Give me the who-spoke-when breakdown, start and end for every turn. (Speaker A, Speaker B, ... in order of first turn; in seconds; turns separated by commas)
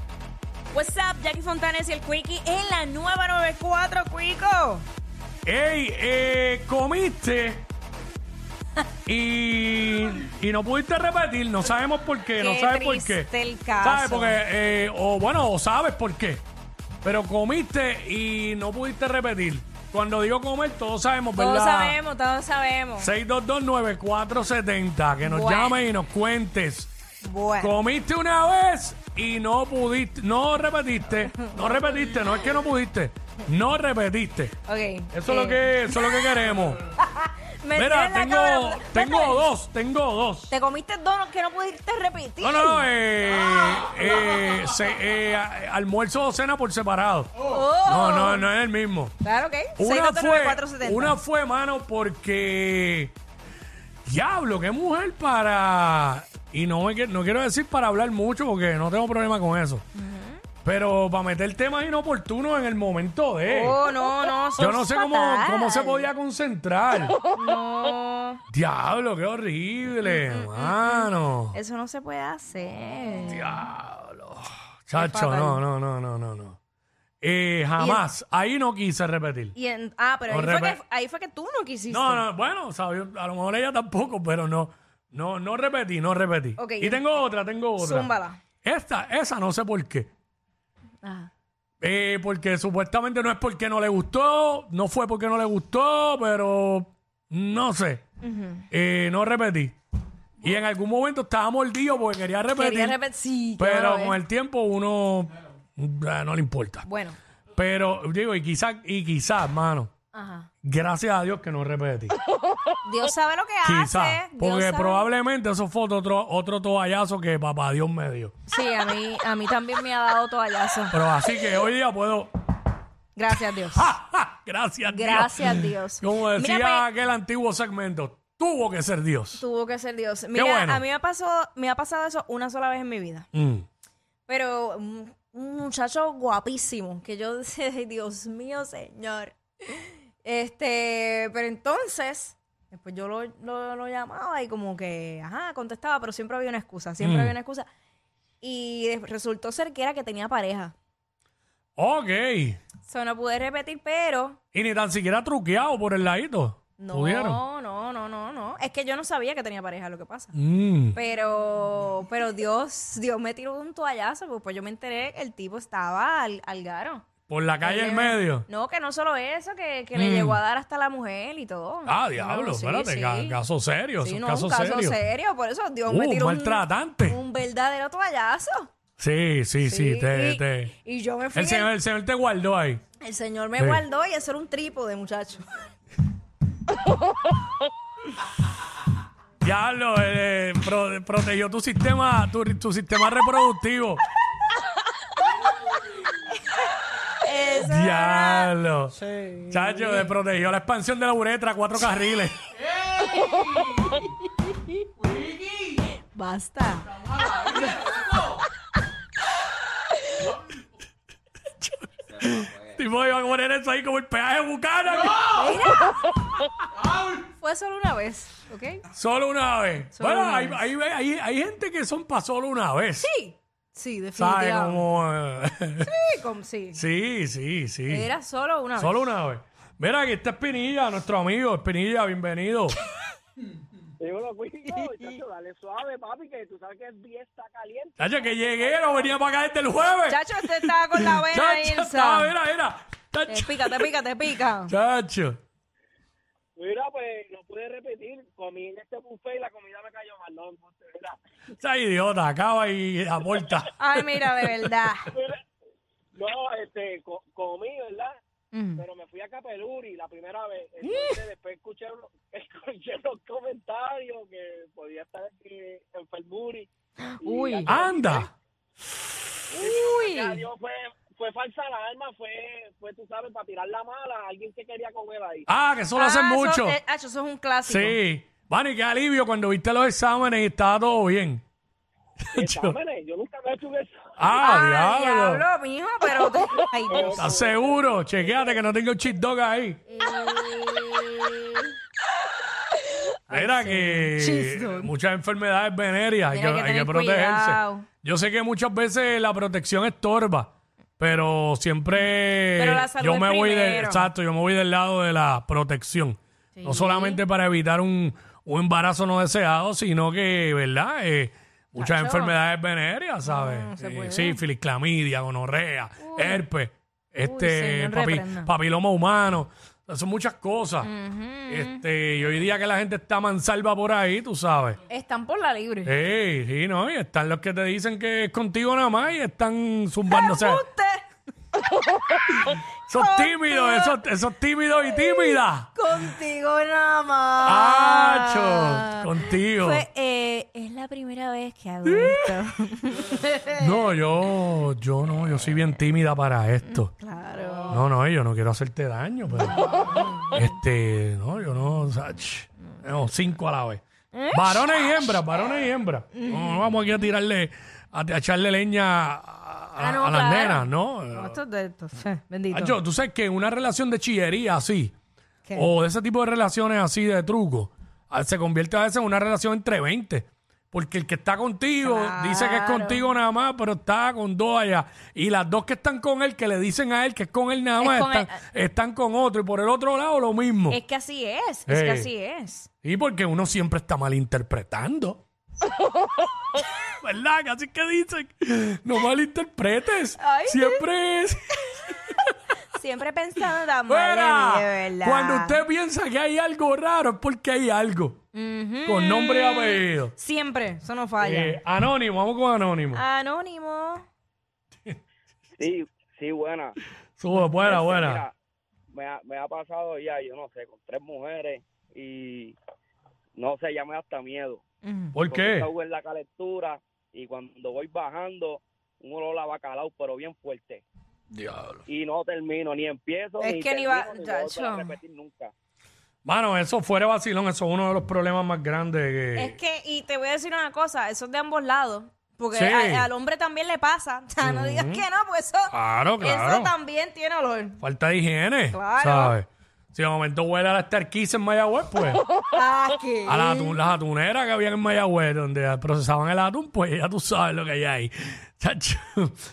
Speaker A: 0.7-4.8, Speaker B: 5.4-7.7, Speaker B: 9.1-13.3, Speaker A: 12.3-14.4, Speaker B: 13.8-16.4, Speaker B: 17.0-22.0, Speaker A: 21.4-23.1, Speaker B: 23.0-26.9, Speaker A: 25.2-25.8, Speaker A: 27.2-27.8, Speaker B: 27.6-34.5, Speaker A: 31.3-32.2, Speaker A: 34.6-36.4, Speaker B: 35.1-36.8, Speaker A: 37.0-39.5, Speaker B: 37.8-40.5, Speaker A: 40.5-42.9, Speaker B: 42.4-49.1, Speaker A: 47.4-48.5, Speaker A: 49.2-51.2, Speaker B: 49.8-53.1, Speaker B: 54.0-59.8, Speaker A: 60.0-60.4, Speaker B: 60.6-63.9, Speaker A: 63.5-66.1, Speaker B: 64.6-67.2, Speaker A: 67.3-68.4, Speaker B: 68.5-71.6, Speaker A: 70.0-73.5, Speaker B: 73.3-76.6, Speaker A: 75.0-75.6, Speaker B: 77.2-79.5, Speaker A: 77.8-78.0, Speaker A: 79.5-82.2, Speaker B: 80.3-80.8, Speaker B: 81.9-88.1, Speaker A: 86.6-87.2, Speaker A: 87.8-88.4, Speaker B: 88.6-90.1, Speaker A: 91.0-91.3, Speaker B: 91.8-98.0, Speaker A: 98.2-98.7, Speaker B: 98.7-99.7, Speaker B: 100.4-103.0, Speaker A: 102.5-104.2, Speaker B: 103.6-106.9, Speaker A: 106.8-107.2, Speaker B: 107.5-109.9, Speaker A: 110.1-110.5, Speaker B: 110.6-112.2, Speaker A: 112.8-115.1, Speaker B: 113.6-118.3, Speaker A: 118.5-121.0, Speaker B: 120.9-122.3, Speaker A: 123.2-123.9, Speaker B: 123.7-129.4, Speaker A: 124.9-126.8, Speaker A: 129.3-133.3, Speaker B: 130.3-130.8, Speaker B: 133.3-133.7, Speaker A: 134.3-147.7, Speaker B: 147.0-147.3, Speaker A: 148.4-150.7, Speaker B: 151.8-152.6, Speaker A: 152.9-154.4, Speaker B: 154.5-157.4, Speaker A: 156.8-160.3, Speaker B: 160.3-161.0, Speaker A: 160.9-167.1, Speaker B: 167.3-168.4, Speaker A: 167.6-173.4, Speaker B: 169.9-170.4, Speaker B: 171.8-175.0, Speaker A: 174.0-178.7, Speaker B: 175.8-177.2, Speaker B: 179.0-180.7, Speaker A: 179.6-181.7, Speaker B: 181.3-182.8, Speaker A: 183.0-185.6, Speaker B: 189.4-194.0, Speaker A: 197.2-198.5, Speaker B: 197.4-199.0, Speaker A: 199.0-200.0, Speaker B: 199.5-202.4, Speaker A: 202.9-208.5, Speaker B: 211.6-215.5, Speaker A: 215.1-216.3, Speaker A: 217.0-218.8, Speaker B: 218.9-223.1, Speaker A: 219.9-220.7, Speaker A: 223.0-224.8, Speaker B: 224.2-225.9, Speaker A: 225.8-226.8, Speaker B: 226.7-228.1, Speaker A: 227.9-229.1, Speaker B: 228.8-232.8, Speaker C: 234.0-239.2, Speaker A: 234.7-235.2, Speaker B: 238.0-243.9, Speaker A: 240.1-242.3, Speaker A: 243.3-244.7, Speaker B: 244.7-245.4, Speaker C: 246.6-251.2, Speaker B: 251.6-254.7, Speaker A: 253.8-255.1, Speaker C: 255.1-255.4, Speaker C: 256.1-258.2, Speaker A: 258.5-258.8, Speaker C: 258.8-266.7, Speaker A: 260.8-261.2, Speaker A: 267.0-267.8, Speaker C: 267.2-268.3, Speaker B: 267.6-268.3, Speaker A: 269.5-270.4, Speaker C: 269.6-275.5, Speaker B: 275.5-276.8, Speaker A: 275.9-278.0, Speaker B: 277.6-281.4, Speaker B: 282.3-282.8, Speaker C: 282.3-284.4, Speaker B: 284.2-285.4, Speaker A: 284.4-287.3, Speaker C: 286.9-288.6, Speaker B: 287.1-289.8, Speaker A: 289.9-291.7, Speaker A: 292.9-294.9, Speaker B: 293.3-320.9, Speaker A: 296.3-297.9, Speaker A: 302.5-304.1, Speaker A: 306.6-307.2, Speaker A: 311.8-312.3, Speaker A: 313.2-314.4, Speaker A: 316.0-316.4, Speaker A: 317.2-318.5, Speaker A: 320.8-321.8, Speaker B: 321.5-324.8, Speaker A: 324.9-325.9, Speaker B: 325.8-330.6, Speaker A: 330.1-331.0, Speaker A: 332.2-334.0, Speaker B: 332.4-335.8, Speaker A: 334.8-343.8, Speaker B: 337.4-339.8, Speaker B: 341.9-342.3, Speaker B: 343.5-346.9, Speaker A: 346.6-347.8, Speaker B: 347.7-353.8, Speaker A: 349.4-350.5, Speaker A: 354.1-355.0, Speaker B: 354.3-361.4, Speaker A: 356.1-356.9, Speaker A: 359.8-362.7, Speaker B: 362.5-364.9, Speaker B: 365.5-380.8, Speaker A: 371.8-373.0, Speaker A: 377.8-378.4, Speaker A: 380.7-382.7, Speaker B: 381.7-382.1, Speaker B: 382.8-385.2, Speaker B: 387.0-392.1, Speaker A: 390.2-390.8, Speaker A: 392.7-395.6, Speaker B: 393.9-398.2, Speaker A: 398.3-401.6, Speaker B: 398.8-400.1, Speaker B: 401.2-403.0, Speaker A: 402.9-404.0, Speaker C: 405.6-406.8, Speaker B: 407.2-408.2, Speaker C: 407.6-408.3, Speaker C: 408.9-412.6, Speaker C: 413.3-414.6, Speaker A: 414.8-415.1, Speaker B: 415.1-415.7, Speaker C: 415.2-420.8, Speaker B: 421.3-421.8, Speaker C: 421.9-425.5, Speaker A: 423.4-425.0, Speaker B: 426.2-429.6, Speaker A: 429.4-437.8, Speaker B: 432.5-433.1, Speaker B: 434.4-435.0, Speaker B: 435.7-436.7, Speaker B: 437.8-442.2, Speaker A: 438.7-439.3, Speaker A: 442.5-443.8, Speaker B: 443.2-449.4